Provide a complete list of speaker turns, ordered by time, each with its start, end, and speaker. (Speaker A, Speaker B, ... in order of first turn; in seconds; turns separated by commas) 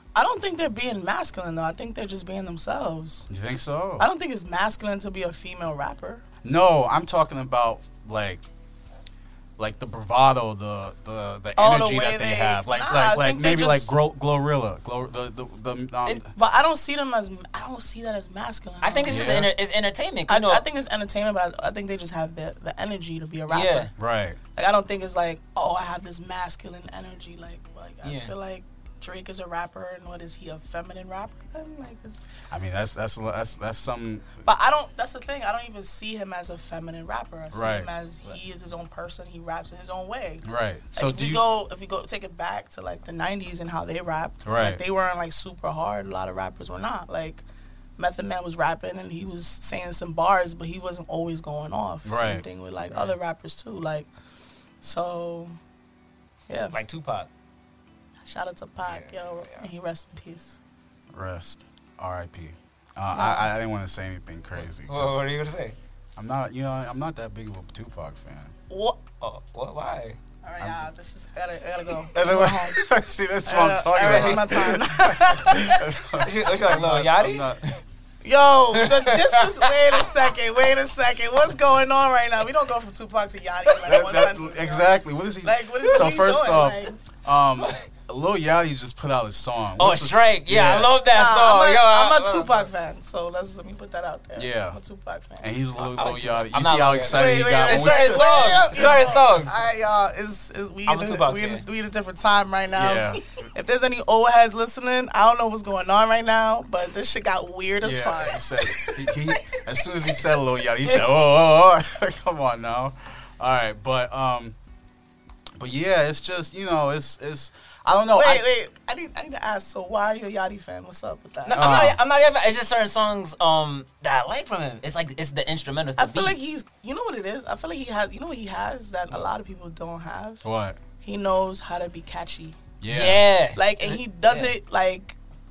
Speaker A: 0.1-3.3, Speaker B: 3.3-4.0, Speaker A: 4.0-6.2, Speaker B: 6.4-8.4, Speaker B: 9.6-16.3, Speaker A: 11.6-13.9, Speaker A: 16.3-19.4, Speaker C: 18.8-20.6, Speaker B: 19.0-19.5, Speaker A: 20.3-23.9, Speaker C: 23.5-23.9, Speaker B: 23.9-24.4, Speaker A: 24.6-32.2, Speaker C: 28.0-28.3, Speaker B: 32.5-34.4, Speaker A: 34.4-47.4, Speaker B: 37.5-37.9, Speaker B: 40.4-41.4, Speaker B: 44.4-44.8, Speaker A: 48.0-54.1, Speaker B: 52.0-52.4, Speaker A: 54.8-55.5, Speaker A: 56.5-56.8, Speaker C: 56.6-57.3, Speaker A: 58.2-60.6, Speaker C: 58.8-59.7, Speaker B: 61.1-65.2, Speaker A: 63.1-63.5, Speaker C: 64.6-65.8, Speaker B: 66.2-68.5, Speaker A: 68.7-69.0, Speaker C: 69.2-70.2, Speaker A: 70.4-72.8, Speaker B: 70.6-70.9, Speaker B: 72.1-77.6, Speaker A: 73.4-75.9, Speaker C: 74.0-74.4, Speaker C: 76.2-77.8, Speaker A: 78.2-87.0, Speaker C: 78.7-80.3, Speaker B: 83.8-90.9, Speaker C: 85.8-86.1, Speaker C: 87.6-87.8, Speaker C: 89.8-92.7, Speaker A: 91.0-95.5, Speaker B: 94.3-94.8, Speaker B: 95.4-99.0, Speaker C: 95.8-99.6, Speaker A: 97.1-109.4, Speaker C: 100.9-101.6, Speaker B: 102.7-103.4, Speaker B: 107.8-114.5, Speaker A: 110.9-111.1, Speaker B: 115.6-118.4, Speaker A: 118.1-121.8, Speaker C: 121.4-126.3, Speaker B: 121.5-122.0, Speaker A: 126.0-130.4, Speaker B: 130.4-130.8, Speaker A: 131.0-132.6, Speaker B: 132.8-133.2, Speaker C: 132.9-134.5, Speaker A: 133.5-135.2